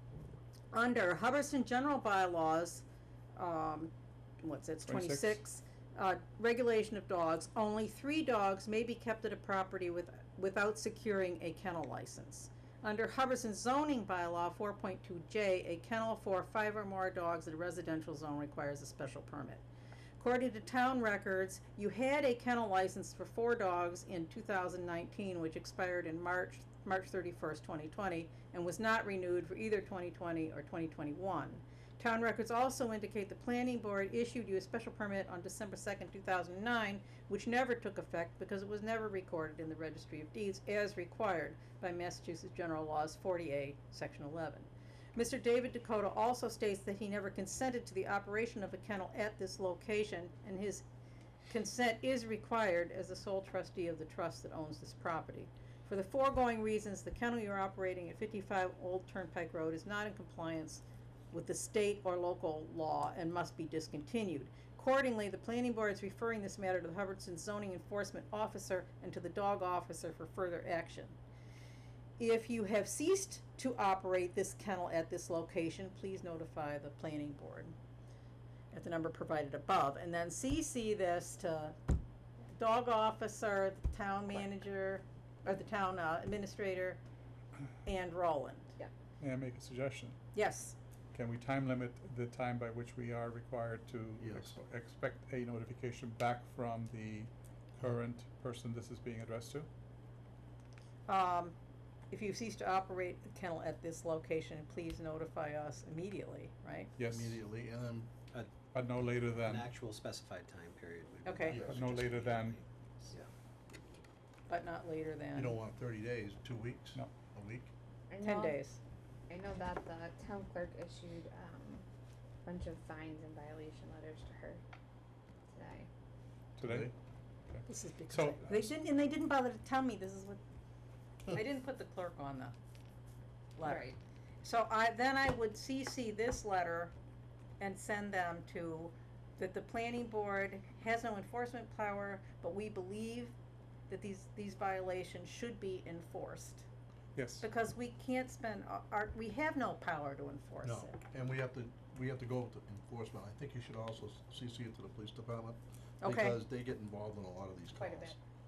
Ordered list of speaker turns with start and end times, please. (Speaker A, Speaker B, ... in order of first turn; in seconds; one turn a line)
Speaker A: 0.7-2.8
Speaker A: 3.4-19.6
Speaker B: 4.9-5.4
Speaker A: 20.2-50.9
Speaker A: 51.5-71.2
Speaker A: 72.2-77.7
Speaker A: 78.7-81.8
Speaker A: 82.5-87.0
Speaker A: 87.8-88.7
Speaker B: 89.2-90.2
Speaker A: 90.3-90.8
Speaker B: 91.1-99.7
Speaker C: 94.2-94.5
Speaker A: 101.1-101.5
Speaker A: 102.1-106.9
Speaker B: 107.0-107.4
Speaker C: 107.1-108.1
Speaker B: 108.7-109.7
Speaker D: 109.4-113.3
Speaker A: 111.2-111.6
Speaker C: 111.5-111.9
Speaker B: 111.5-112.6
Speaker A: 114.5-115.6
Speaker C: 115.3-117.7
Speaker E: 118.1-118.6
Speaker A: 118.2-118.8
Speaker E: 119.3-121.8
Speaker E: 122.4-124.6
Speaker E: 125.5-125.9
Speaker B: 126.6-126.9
Speaker C: 126.6-126.9
Speaker B: 127.5-128.7
Speaker A: 127.7-130.4
Speaker A: 131.3-132.5
Speaker A: 133.6-133.8
Speaker E: 133.6-134.0
Speaker A: 134.4-136.9
Speaker A: 137.6-143.3
Speaker A: 143.9-146.7
Speaker B: 147.1-147.4
Speaker A: 147.4-151.0
Speaker C: 150.6-158.1
Speaker A: 156.0-156.4
Speaker E: 157.7-158.2